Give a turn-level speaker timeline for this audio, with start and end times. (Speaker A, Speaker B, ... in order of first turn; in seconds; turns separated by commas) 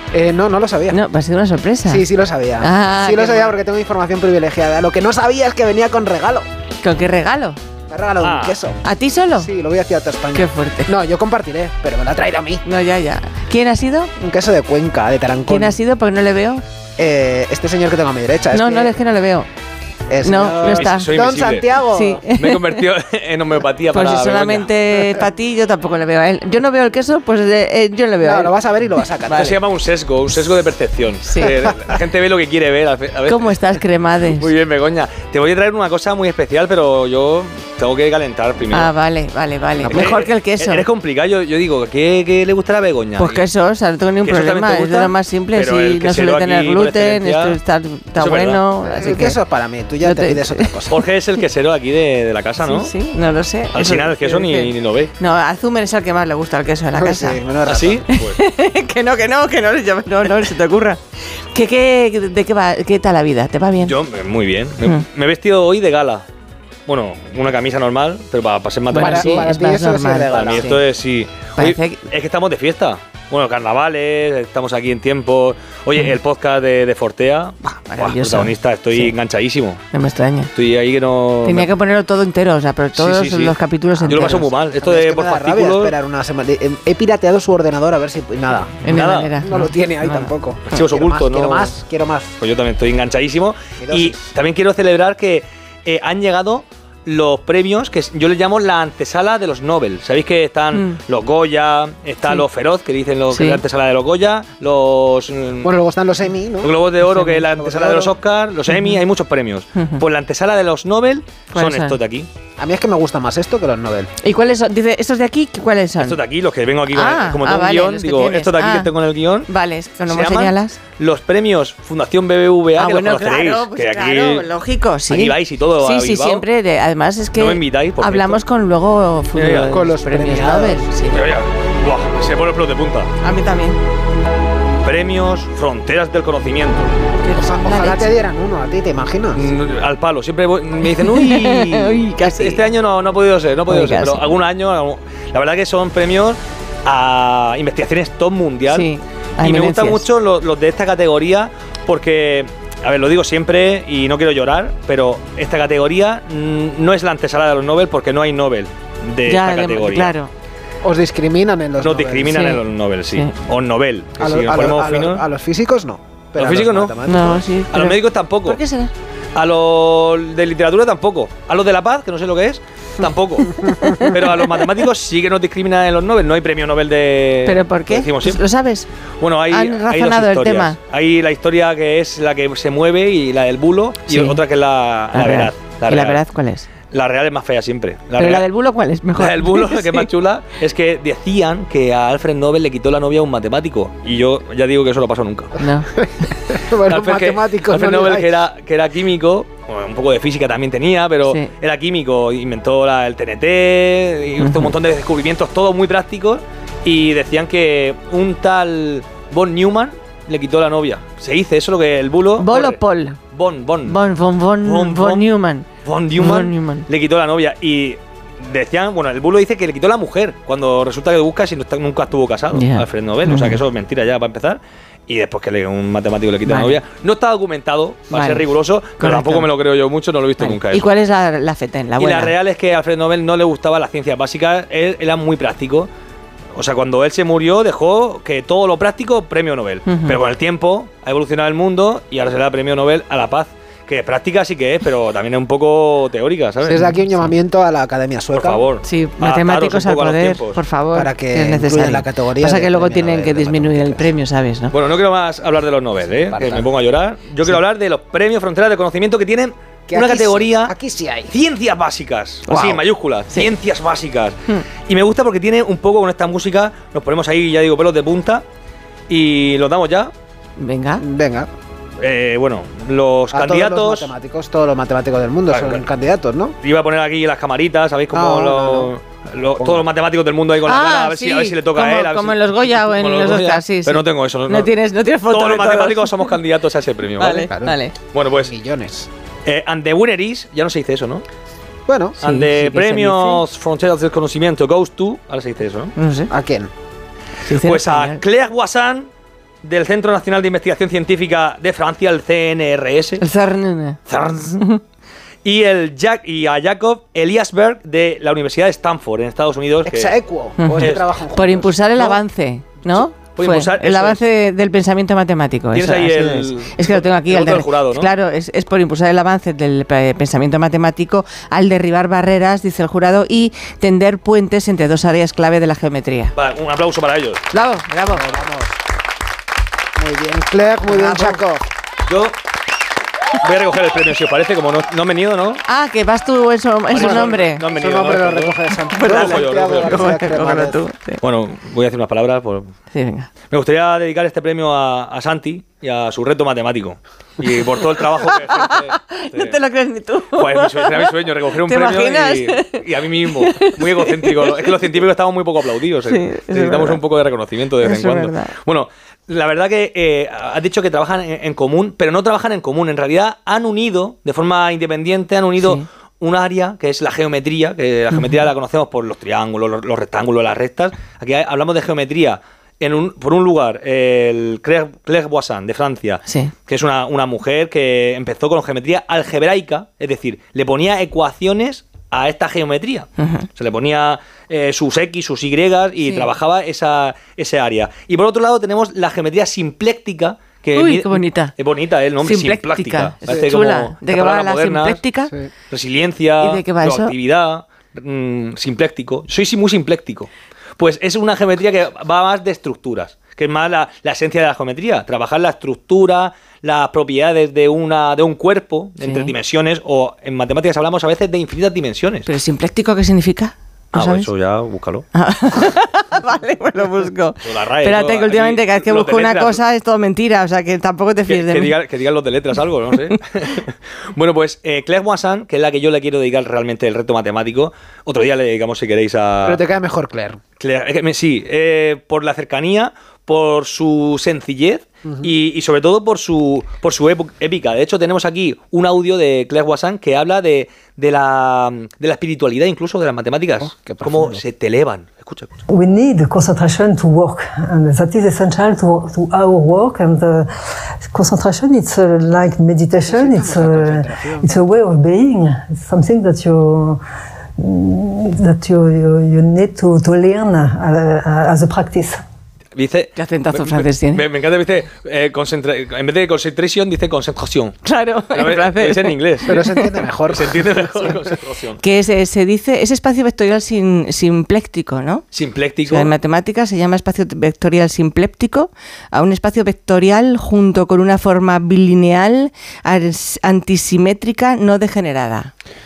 Speaker A: 0.1-1.0, Speaker B: 0.9-2.0, Speaker A: 1.9-6.5, Speaker B: 2.6-3.5, Speaker B: 6.8-7.6, Speaker A: 7.9-8.8, Speaker C: 8.2-8.6, Speaker B: 8.8-9.5, Speaker A: 9.4-12.6, Speaker B: 10.3-10.9, Speaker B: 12.6-14.1, Speaker A: 14.2-15.8, Speaker B: 15.5-16.6, Speaker A: 17.0-19.0, Speaker B: 18.5-19.5, Speaker A: 20.1-22.2, Speaker B: 20.2-21.1, Speaker C: 20.6-21.7, Speaker B: 21.9-22.8, Speaker C: 22.3-24.7, Speaker B: 23.9-28.5, Speaker A: 28.2-29.6, Speaker C: 29.3-33.6, Speaker B: 31.2-31.6, Speaker B: 33.2-34.5, Speaker C: 34.3-38.9, Speaker B: 38.7-40.8, Speaker C: 39.8-43.4, Speaker B: 43.2-49.4, Speaker C: 44.2-47.6, Speaker C: 48.1-48.6, Speaker A: 48.8-51.0, Speaker B: 50.0-50.7, Speaker C: 50.9-52.9, Speaker B: 52.6-57.4, Speaker C: 53.7-55.1, Speaker A: 56.9-58.0, Speaker C: 57.6-58.4, Speaker B: 58.1-61.0, Speaker B: 61.5-64.0, Speaker C: 63.8-66.2, Speaker C: 66.9-69.5, Speaker B: 68.9-70.8, Speaker A: 69.0-70.7, Speaker C: 70.3-79.8, Speaker B: 71.5-72.0, Speaker B: 77.8-79.1, Speaker B: 79.9-80.5, Speaker C: 80.5-81.7, Speaker B: 81.4-84.5, Speaker C: 83.0-86.0, Speaker A: 84.0-88.8, Speaker B: 88.8-90.8, Speaker C: 88.9-89.3, Speaker A: 89.4-92.3, Speaker C: 90.7-91.7, Speaker C: 92.4-105.7, Speaker A: 93.8-94.3, Speaker B: 100.7-101.0, Speaker B: 103.3-103.6, Speaker A: 105.6-106.8, Speaker C: 106.6-112.3, Speaker B: 107.1-107.4, Speaker A: 107.5-108.2, Speaker B: 108.7-109.0, Speaker B: 109.8-110.0, Speaker B: 111.5-112.0, Speaker A: 112.6-114.1, Speaker B: 114.2-116.2, Speaker C: 116.0-119.5, Speaker B: 116.9-118.9, Speaker B: 119.5-120.8, Speaker C: 120.1-124.5, Speaker B: 122.8-131.3, Speaker C: 125.1-126.4, Speaker C: 127.4-128.4, Speaker C: 129.3-129.8, Speaker A: 129.6-130.8, Speaker C: 131.1-133.1, Speaker B: 133.2-133.8, Speaker C: 134.8-136.9, Speaker B: 137.2-138.2, Speaker A: 137.3-139.4, Speaker C: 139.3-148.9, Speaker B: 140.9-142.6, Speaker B: 143.7-144.3, Speaker B: 148.7-150.1, Speaker C: 149.4-160.1, Speaker B: 159.2-160.3, Speaker A: 160.8-162.3, Speaker C: 161.8-165.2, Speaker B: 162.3-162.6, Speaker A: 164.2-167.4, Speaker C: 166.3-167.0, Speaker B: 167.0-168.9, Speaker C: 167.7-168.6, Speaker C: 169.3-178.4, Speaker B: 173.8-174.2, Speaker B: 177.4-178.9, Speaker C: 179.2-186.2, Speaker B: 179.5-180.8, Speaker B: 184.1-184.4, Speaker B: 185.1-186.7, Speaker C: 186.9-188.4, Speaker B: 188.2-190.1, Speaker C: 189.2-195.6, Speaker B: 195.6-195.9, Speaker A: 196.0-198.5, Speaker C: 196.8-212.8, Speaker B: 204.4-204.7, Speaker B: 212.4-213.2, Speaker C: 213.3-214.0, Speaker B: 213.8-216.8, Speaker C: 214.6-215.3, Speaker C: 215.8-230.9, Speaker B: 222.5-223.6, Speaker B: 226.4-226.8, Speaker B: 228.1-228.4, Speaker B: 229.0-229.5, Speaker B: 230.4-232.3, Speaker C: 232.0-235.9, Speaker C: 236.5-246.9, Speaker B: 239.9-240.2, Speaker A: 246.6-248.6, Speaker B: 246.8-247.2, Speaker C: 248.3-250.6, Speaker B: 248.8-254.7, Speaker A: 250.9-254.1, Speaker C: 254.7-260.7, Speaker A: 256.3-256.7, Speaker A: 259.9-261.3, Speaker C: 261.3-268.4, Speaker B: 262.5-263.5, Speaker C: 269.1-270.1, Speaker B: 270.6-271.0, Speaker A: 271.0-271.5, Speaker C: 272.0-274.1, Speaker A: 273.3-276.6, Speaker C: 275.5-275.9, Speaker C: 276.6-284.7, Speaker A: 278.1-278.9, Speaker A: 279.6-279.9, Speaker B: 280.6-286.4, Speaker C: 285.3-287.5, Speaker B: 287.2-287.9, Speaker A: 287.2-287.8, Speaker C: 288.1-288.5, Speaker A: 288.4-289.1, Speaker C: 289.4-291.2, Speaker A: 291.9-292.2, Speaker C: 292.2-295.9, Speaker B: 292.2-293.4, Speaker B: 295.9-296.3, Speaker A: 296.3-296.7, Speaker B: 297.4-298.2, Speaker C: 297.5-299.1, Speaker C: 299.6-303.2, Speaker B: 303.2-304.0, Speaker C: 304.1-304.6, Speaker C: 305.4-310.2, Speaker A: 309.8-311.7, Speaker B: 310.6-326.3, Speaker C: 310.8-311.0, Speaker C: 312.8-314.2, Speaker C: 315.7-318.1, Speaker C: 326.4-327.4, Speaker B: 327.5-328.2, Speaker A: 328.1-328.8, Speaker A: 330.0-331.6, Speaker B: 330.9-331.4, Speaker C: 332.1-332.4, Speaker C: 333.4-335.6, Speaker B: 335.7-337.6, Speaker C: 336.9-340.2, Speaker A: 336.9-340.8, Speaker B: 338.9-341.2, Speaker C: 341.2-342.7, Speaker B: 342.9-343.3, Speaker C: 343.5-349.6, Speaker B: 347.8-354.8, Speaker C: 350.3-395.0, Speaker B: 356.1-357.0, Speaker B: 357.8-358.5, Speaker B: 365.6-365.8, Speaker B: 368.1-368.4, Speaker B: 376.2-376.5, Speaker B: 383.2-383.5, Speaker B: 386.0-386.3, Speaker B: 390.8-391.5, Speaker B: 392.2-395.3, Speaker C: 395.7-412.3, Speaker B: 396.4-397.1, Speaker B: 409.0-409.3, Speaker B: 412.2-414.3, Speaker C: 413.9-415.0, Speaker B: 415.1-421.7, Speaker C: 417.4-419.6, Speaker C: 421.2-429.6, Speaker A: 429.4-430.4, Speaker C: 430.6-445.5, Speaker A: 443.6-444.4, Speaker D: 445.7-450.5, Speaker D: 451.1-457.0, Speaker A: 453.0-454.8, Speaker D: 457.6-462.2, Speaker C: 462.7-467.8, Speaker B: 463.1-464.2, Speaker B: 467.8-469.6, Speaker C: 468.3-469.6, Speaker A: 469.5-470.5, Speaker C: 470.3-471.8, Speaker B: 471.8-475.2, Speaker C: 475.3-476.1, Speaker B: 475.8-485.5